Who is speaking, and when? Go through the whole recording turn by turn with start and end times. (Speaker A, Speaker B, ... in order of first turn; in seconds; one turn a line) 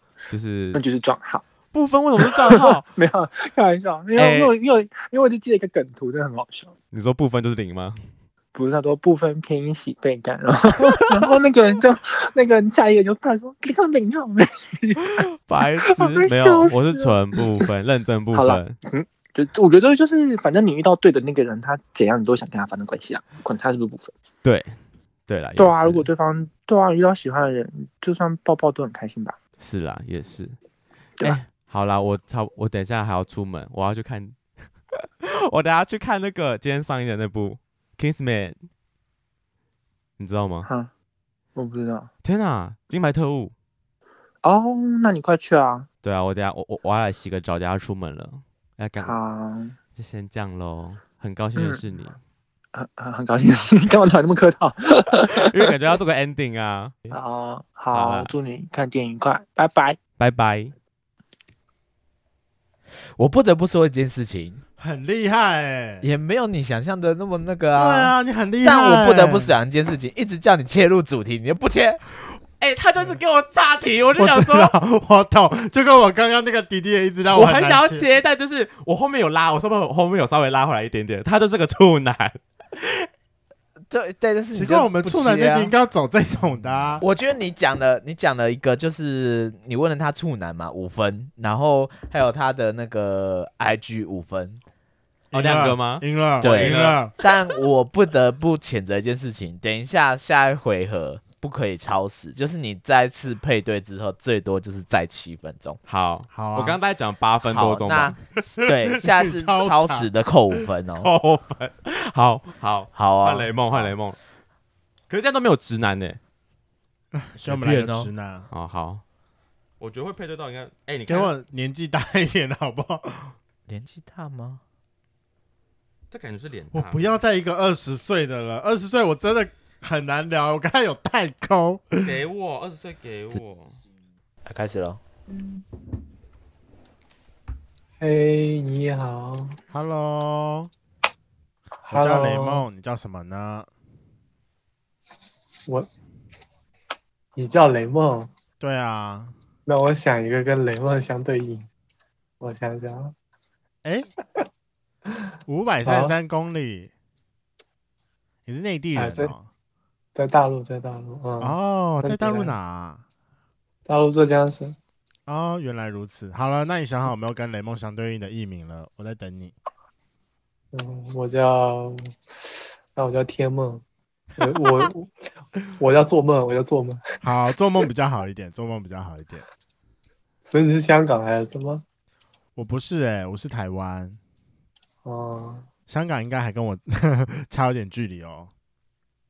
Speaker A: 0.3-0.8
Speaker B: 0.7-1.4
Speaker A: 1.7-2.9
Speaker B: 2.2-6.7
Speaker A: 4.2-4.5
Speaker A: 6.9-8.0
Speaker B: 8.5-15.2
Speaker A: 10.8-11.3
Speaker A: 15.1-18.8
Speaker B: 15.8-17.7
Speaker B: 18.3-24.1
Speaker A: 24.4-24.8
Speaker A: 25.3-26.1
Speaker B: 25.6-29.4
Speaker A: 29.6-30.6
Speaker A: 31.2-34.4
Speaker A: 34.9-38.6
Speaker A: 40.2-40.7
Speaker B: 40.6-40.9
Speaker B: 41.5-42.1
Speaker A: 42.2-43.5
Speaker B: 44.4-45.9
Speaker A: 46.0-49.2
Speaker B: 49.0-49.8
Speaker A: 50.0-52.2
Speaker B: 51.5-51.8
Speaker B: 52.7-55.7
Speaker A: 55.3-57.1
Speaker B: 57.1-60.0
Speaker A: 57.9-58.3
Speaker A: 60.2-60.7
Speaker C: 63.1-64.6
Speaker D: 64.8-66.0
Speaker C: 66.0-72.0
Speaker D: 67.8-69.5
Speaker A: 72.6-74.8
Speaker D: 74.2-78.0
Speaker A: 77.3-83.1
Speaker C: 83.9-85.7
Speaker D: 84.5-87.0
Speaker C: 87.0-94.6
Speaker D: 95.3-97.1
Speaker A: 95.3-97.0
Speaker C: 96.4-105.8
Speaker A: 105.9-108.2
Speaker D: 106.3-106.8
Speaker C: 107.4-111.1
Speaker D: 108.9-110.1
Speaker A: 111.0-114.2
Speaker C: 112.9-113.9
Speaker A: 115.1-116.2
Speaker D: 117.1-118.5
Speaker C: 117.4-118.1
Speaker A: 118.5-119.0
Speaker A: 119.8-121.3
Speaker D: 121.1-123.3
Speaker C: 123.7-124.6
Speaker A: 126.1-127.1
Speaker D: 126.7-132.2
Speaker A: 132.0-133.8
Speaker C: 134.4-135.0
Speaker E: 138.0-139.6
Speaker D: 139.7-140.7
Speaker E: 141.9-142.7
Speaker D: 141.9-143.7
Speaker E: 147.3-148.3
Speaker D: 148.6-149.3
Speaker E: 149.7-151.7
Speaker E: 152.4-153.1
Speaker D: 155.4-156.9
Speaker E: 155.8-156.1
Speaker D: 158.4-159.5
Speaker E: 158.9-159.3
Speaker E: 160.1-162.5
Speaker D: 161.4-163.0
Speaker E: 163.8-164.8
Speaker D: 165.3-169.5
Speaker E: 170.7-172.1
Speaker E: 172.9-173.8
Speaker E: 174.4-175.1
Speaker E: 175.8-177.2
Speaker D: 177.2-179.4
Speaker E: 180.5-181.8
Speaker D: 182.6-184.2
Speaker E: 185.0-185.7
Speaker D: 185.9-188.5